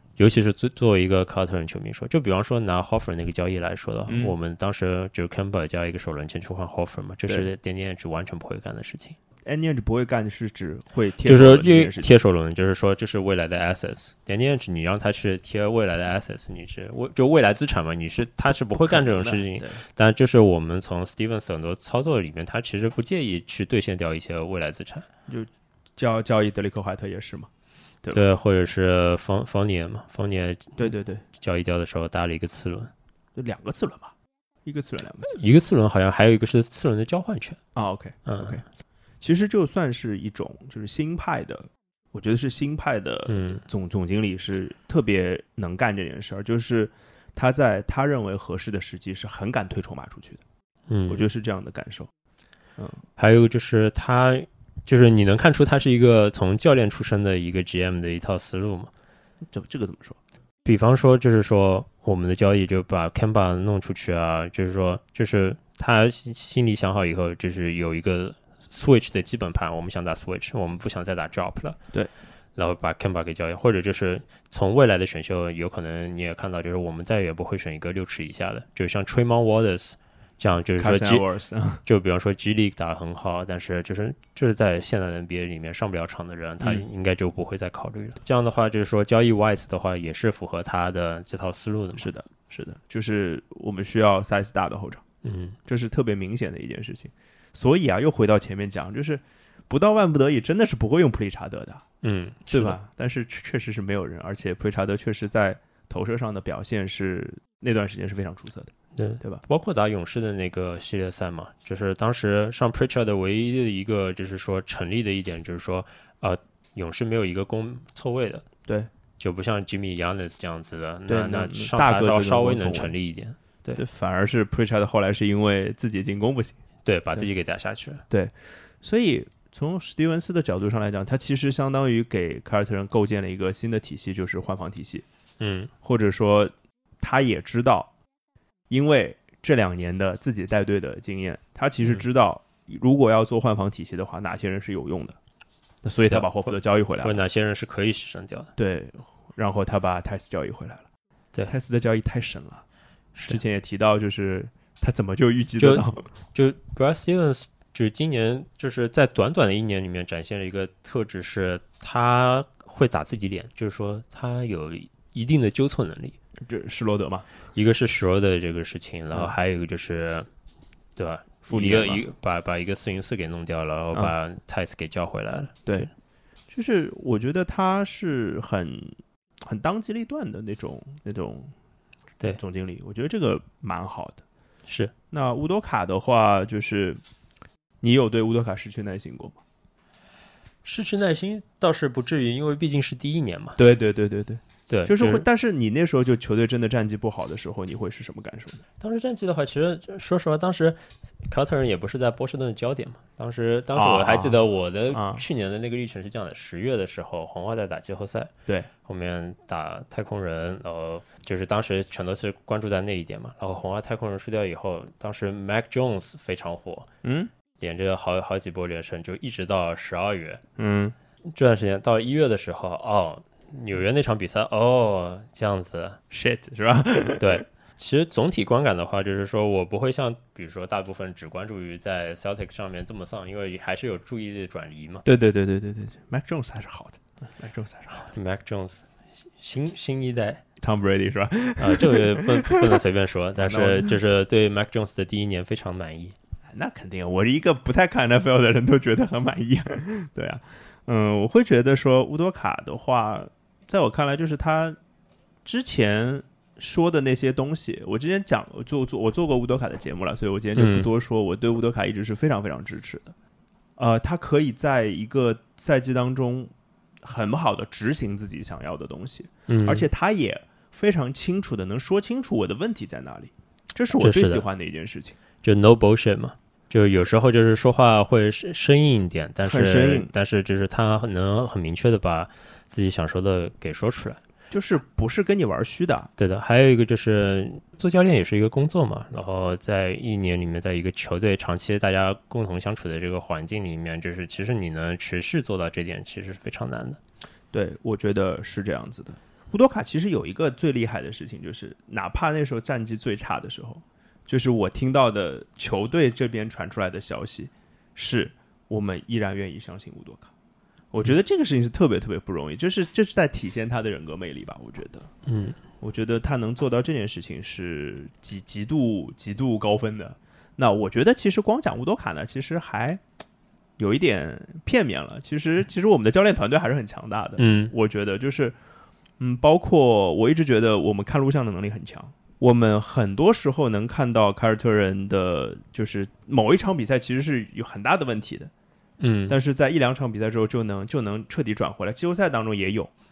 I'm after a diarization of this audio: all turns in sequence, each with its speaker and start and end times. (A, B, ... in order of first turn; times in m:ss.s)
0:00.2-0:09.2 A
0:04.1-0:04.4 B
0:09.4-0:12.1 B
0:11.2-0:25.0 A
0:18.7-0:19.8 B
0:25.3-0:27.5 B
0:28.1-0:32.9 A
0:30.8-0:31.2 B
0:33.3-0:34.1 B
0:34.6-0:35.4 B
0:35.3-0:37.6 A
0:37.7-0:38.6 B
0:38.2-0:38.6 A
0:39.2-0:50.4 B
0:43.3-0:43.6 A
0:50.9-0:51.2 A
0:51.1-0:52.1 B
0:52.8-0:53.0 B
0:53.2-0:58.9 A
0:59.4-1:00.2 B
1:00.6-1:11.8 A
1:12.5-1:21.2 A
1:20.8-1:21.8 B
1:21.8-1:32.1 A
1:26.6-1:26.8 B
1:32.0-1:35.0 B
1:35.2-1:35.6 A
1:35.6-1:41.8 B
1:42.0-1:42.8 A
1:42.4-1:49.4 B
1:49.0-1:58.4 A
1:59.2-2:03.8 A
2:01.1-2:02.9 B
2:03.8-2:06.6 B
2:06.8-2:08.0 A
2:08.1-2:15.0 B
2:15.4-2:15.7 A
2:15.8-2:17.9 B
2:18.7-2:25.2 B
2:25.8-2:27.2 B
2:26.1-2:26.5 A
2:27.0-2:28.5 A
2:28.6-2:30.8 B
2:31.5-2:32.6 B
2:33.1-2:33.4 A
2:33.3-2:36.0 B
2:35.6-2:46.2 A
2:46.4-2:47.2 B
2:47.5-2:50.3 A
2:51.0-2:55.6 A
2:51.4-2:52.0 B
2:56.5-3:01.5 B
3:02.4-3:04.2 B
3:04.7-3:04.9 A
3:05.1-3:07.0 B
3:07.8-3:09.4 B
3:10.6-3:13.6 A
3:13.6-3:18.6 B
3:14.7-3:15.2 A
3:18.8-3:28.3 A
3:23.7-3:24.4 B
3:24.9-3:25.2 B
3:28.8-3:36.9 A
3:37.0-3:37.3 B
3:37.6-3:40.4 A
3:40.6-3:40.9 B
3:41.2-3:46.0 A
3:46.1-3:47.4 B
3:47.2-3:55.0 A
3:55.0-3:58.1 B
3:57.9-4:00.4 A
4:00.6-4:02.8 B
4:01.6-4:06.1 A
4:03.4-4:04.0 B
4:06.5-4:14.8 B
4:15.4-4:23.1 B
4:20.6-4:20.9 A
4:23.8-4:35.2 B
4:29.5-4:29.8 A
4:33.9-4:34.4 A
4:35.4-4:44.2 A
4:39.4-4:40.1 B
4:44.5-4:46.1 B
4:46.2-4:57.0 A
4:57.5-5:10.3 B
5:10.9-5:15.1 B
5:15.2-5:15.6 A
5:15.8-5:23.0 B
5:23.8-5:28.6 B
5:27.4-5:27.7 A
5:29.2-5:38.5 B
5:39.0-5:39.4 A
5:39.3-5:42.9 B